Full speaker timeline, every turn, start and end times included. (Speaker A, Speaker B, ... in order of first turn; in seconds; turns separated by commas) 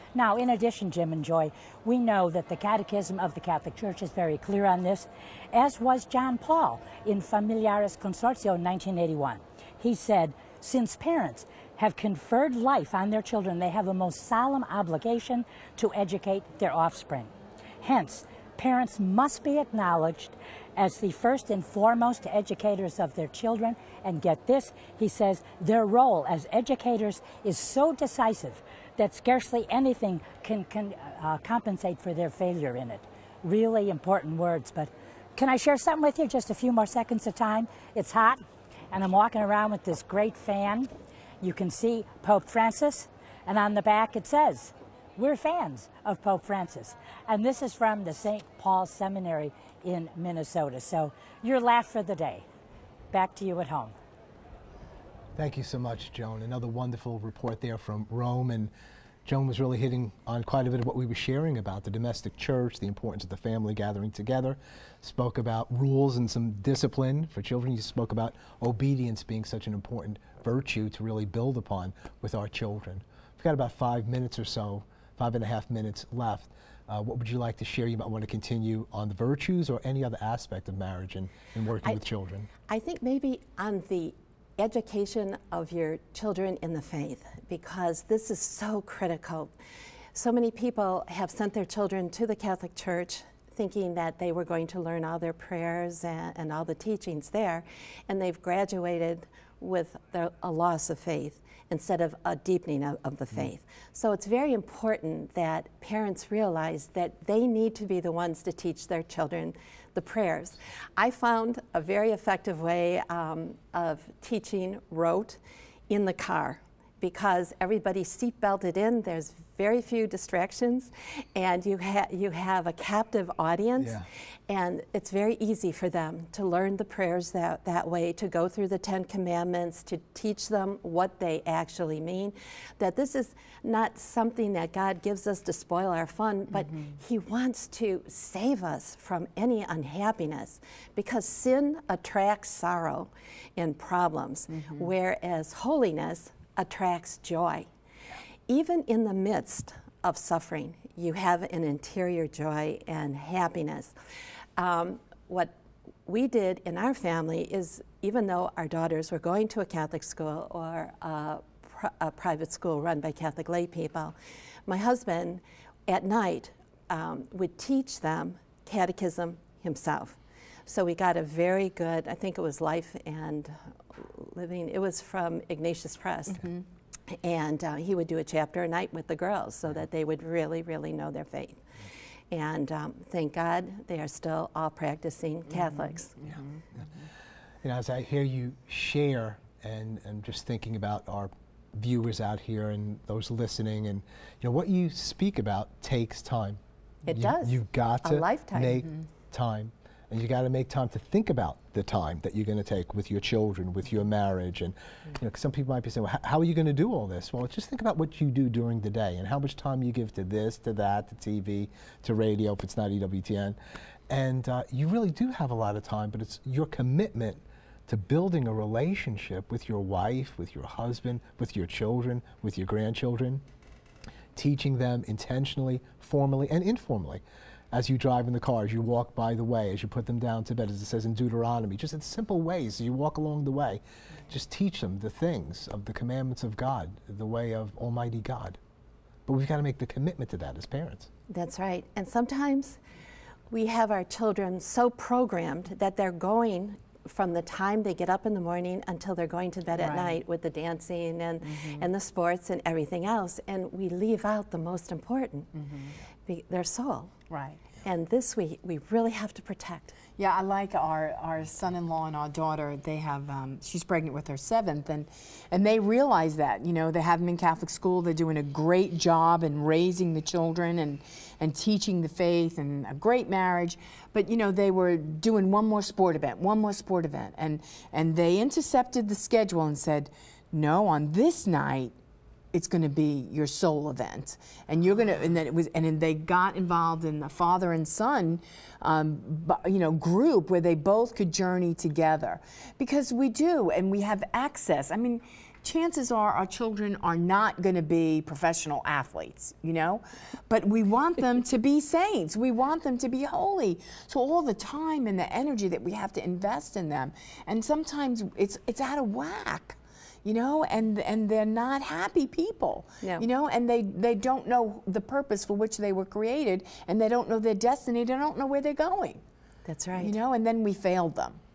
Speaker A: 0.1-40.9, Speaker A: 41.4-52.4, Speaker A: 53.1-53.9, Speaker B: 55.4-58.7, Speaker B: 59.2-82.5, Speaker C: 82.7-89.5, Speaker C: 90.1-147.7, Speaker B: 123.8-124.0, Speaker D: 144.5-144.9, Speaker C: 148.5-153.9, Speaker C: 154.6-155.5, Speaker C: 156.1-164.1, Speaker C: 164.7-176.5, Speaker D: 176.3-176.6, Speaker C: 177.1-181.6, Speaker C: 182.3-186.2, Speaker D: 185.6-186.4, Speaker B: 187.6-196.6, Speaker C: 197.1-199.0, Speaker B: 197.1-213.6, Speaker B: 214.1-223.4, Speaker B: 224.3-238.6, Speaker B: 239.3-241.1, Speaker C: 241.3-242.8, Speaker C: 243.5-255.5, Speaker D: 249.7-250.2, Speaker D: 251.4-251.9, Speaker D: 255.6-255.9, Speaker C: 256.3-257.1, Speaker D: 257.3-257.6, Speaker C: 257.8-259.9, Speaker D: 260.2-281.9, Speaker D: 282.5-319.2, Speaker C: 319.6-320.1, Speaker D: 320.0-321.4